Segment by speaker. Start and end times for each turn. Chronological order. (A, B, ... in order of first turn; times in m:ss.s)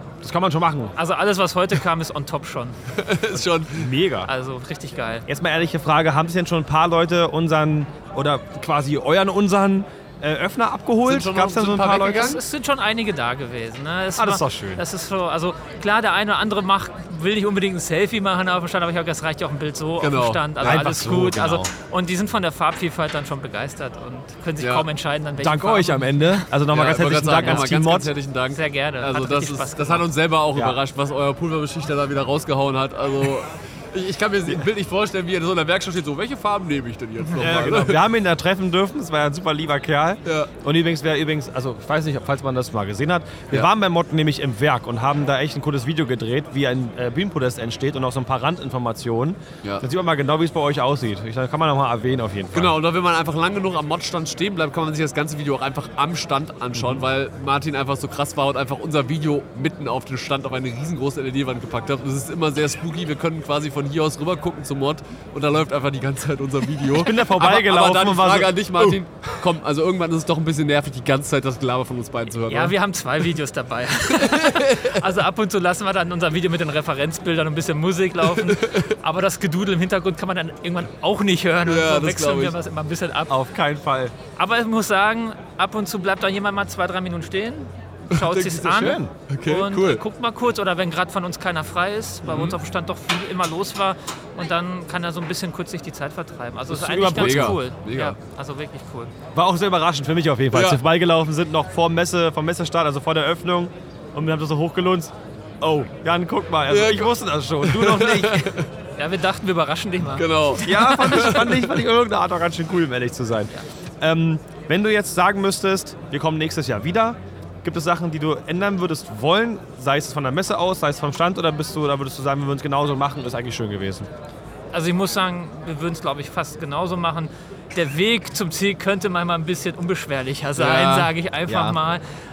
0:00.2-0:00.9 A
0:01.0-0:02.8 B
0:03.0-0:03.9 C
0:03.7-0:04.3 A
0:04.2-0:05.2 B
0:05.3-0:12.4 A
0:11.0-0:12.4 C
0:12.0-0:26.4 B
0:14.2-0:14.8 A
0:20.0-0:20.9 C
0:20.6-0:21.7 A
0:24.6-0:24.9 C
0:25.4-0:28.1 A
0:26.7-0:38.0 C
0:27.4-0:27.7 B
0:28.5-0:30.1 B
0:37.4-0:52.8 A
0:52.5-1:12.8 C
0:56.8-0:57.0 A
1:06.9-1:09.0 A
1:12.5-1:23.3 B
1:14.1-1:14.9 C
1:18.4-1:18.9 C
1:21.6-1:22.6 C
1:23.3-1:24.1 A
1:24.4-1:39.1 B
1:28.1-1:30.0 C
1:28.6-1:29.1 A
1:32.3-1:32.6 C
1:36.7-1:37.6 A
1:37.1-1:38.2 C
1:39.3-1:48.5 A
1:40.5-1:40.8 C
1:46.7-1:48.7 C
1:49.0-1:50.4 B
1:50.2-1:51.8 C
1:50.6-2:04.1 A
2:04.7-2:12.0 B
2:10.6-2:11.1 C
2:11.5-2:11.8 A